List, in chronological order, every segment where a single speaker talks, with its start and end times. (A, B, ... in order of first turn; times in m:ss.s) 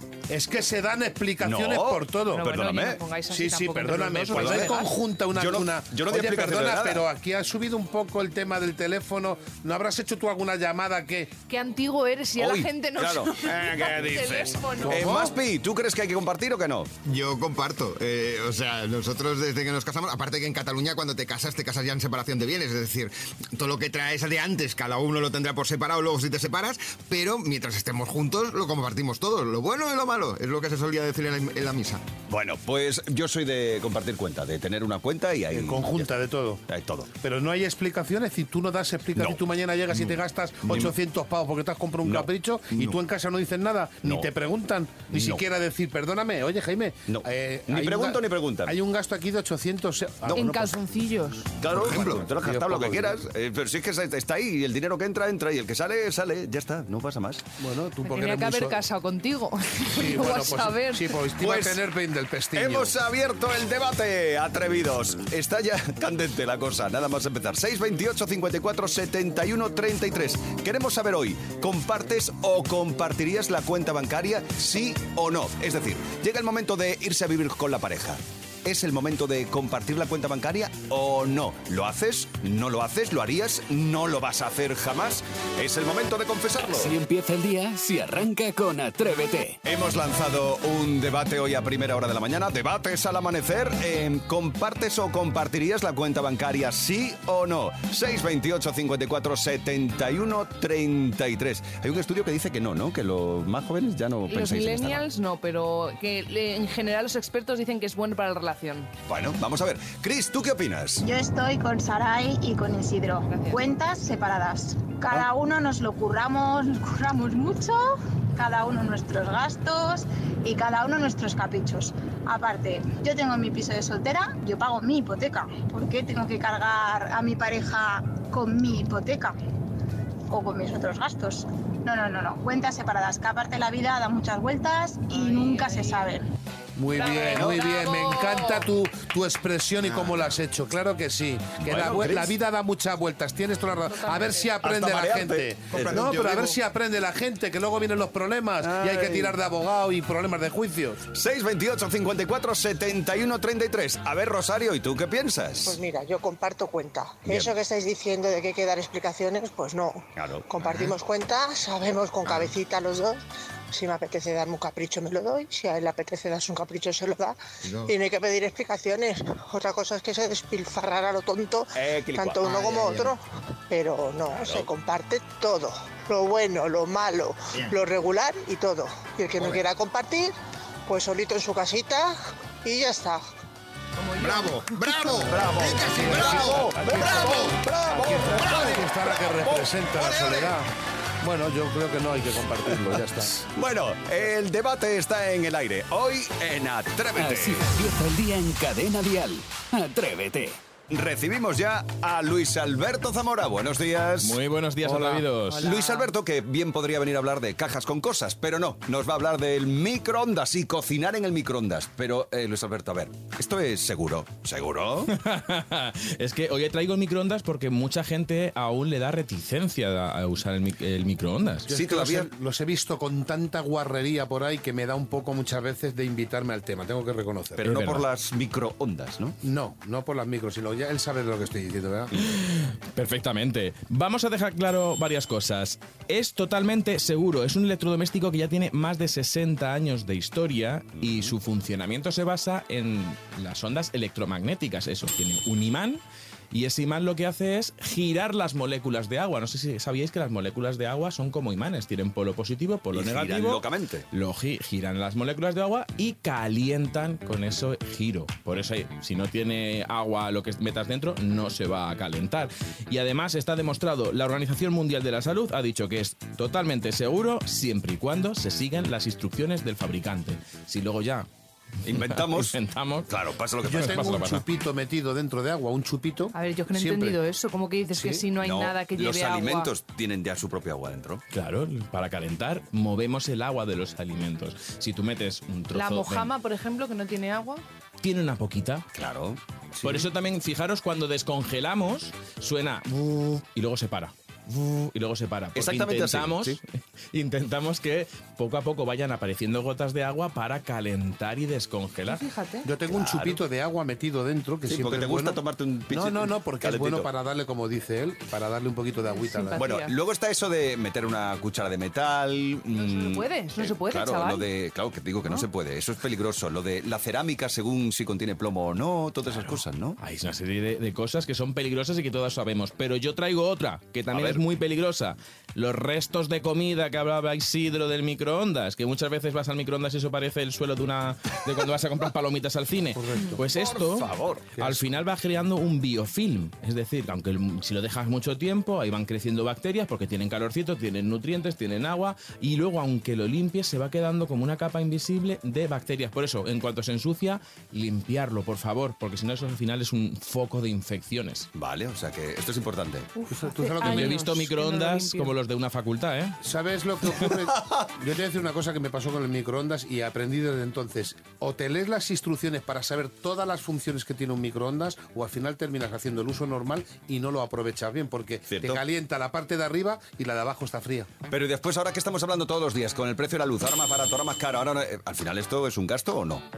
0:00.3-0:02.5 A
0:01.4-0:03.0 B
0:02.3-0:04.9 C
0:03.3-0:11.3 A
0:04.3-0:04.8 B
0:05.4-0:07.0 B
0:11.5-0:15.2 C
0:12.4-0:16.9 B
0:13.4-0:14.3 A
0:14.8-0:15.4 A
0:17.0-0:32.0 D
0:32.3-0:36.1 B
0:35.5-0:36.6 A
0:36.7-0:37.1 B
0:37.2-0:51.1 A
0:39.9-0:40.9 B
0:42.0-0:43.0 B
0:45.1-0:45.4 B
0:47.1-0:48.8 B
0:50.3-0:51.4 C
0:51.6-0:57.4 B
0:51.7-0:52.3 D
0:51.9-0:53.2 A
0:57.6-0:58.8 A
0:58.0-1:01.2 C
0:59.9-1:03.0 A
1:01.4-1:01.8 B
1:02.5-1:26.9 B
1:26.7-1:29.6 E
1:29.6-1:45.0 B
1:44.3-1:48.9 C
1:49.1-1:51.1 B
1:51.0-1:57.8 F
1:53.3-1:53.6 C
1:58.4-2:09.4 F
2:10.3-2:16.2 F
2:15.1-2:16.0 C
2:16.8-2:31.1 A
2:17.0-2:18.7 C
2:21.6-2:22.3 B
2:23.9-2:24.5 C
2:24.6-2:26.5 B
2:25.8-2:26.5 D
2:31.1-2:35.8 B
2:35.6-2:43.2 G
2:37.3-2:37.5 B
2:40.2-2:40.9 B
2:43.7-3:00.3 G
2:47.6-2:47.9 D
2:51.8-2:53.1 B
2:54.4-2:54.7 B
3:00.9-3:03.2 G
3:04.0-3:04.8 C
3:04.2-3:07.6 D
3:05.1-3:08.9 B
3:05.8-3:10.7 A
3:08.4-3:10.6 D
3:11.2-3:13.5 A
3:12.7-3:17.7 B
3:17.2-3:20.6 E
3:20.9-3:24.4 B
3:24.2-3:25.7 H
3:24.8-3:25.4 A
3:25.6-3:35.1 B
3:35.1-3:41.7 H
3:41.7-3:47.6 A
3:41.7-3:42.3 B
3:47.6-3:49.4 B
3:47.6-3:48.0 H
3:49.4-3:52.1 A
3:52.2-4:31.3 H
4:01.0-4:01.4 B
4:12.9-4:14.1 B
4:31.8-4:32.6 B
4:32.0-4:33.1 H
4:33.1-4:34.2 B
4:33.6-4:37.2 A
4:33.8-4:34.4 H
4:36.3-4:39.7 C
4:38.0-4:38.2 A
4:38.4-4:41.2 B
4:41.3-4:46.3 H
4:45.7-4:47.6 C
4:48.0-4:48.8 H
4:48.9-4:50.1 B
4:49.8-4:56.6 H
4:55.6-4:56.6 B
4:57.1-5:02.2 H
5:02.1-5:02.7 C
5:02.6-5:05.4 A
5:02.9-5:03.4 B
5:04.7-5:07.1 B
5:05.9-5:09.6 A
5:09.1-5:09.9 C
5:09.6-5:20.0 B
5:12.7-5:14.5 C
5:19.3-5:51.5 H
5:24.1-5:24.4 B
5:33.0-5:33.4 A
5:33.4-5:34.8 B
5:51.6-5:53.1 B
5:53.2-5:55.4 C
5:53.3-5:54.4 A
5:53.8-5:56.4 H
5:56.4-6:11.1 A
5:57.6-5:57.9 B
6:08.5-6:08.8 B
6:11.3-6:16.4 B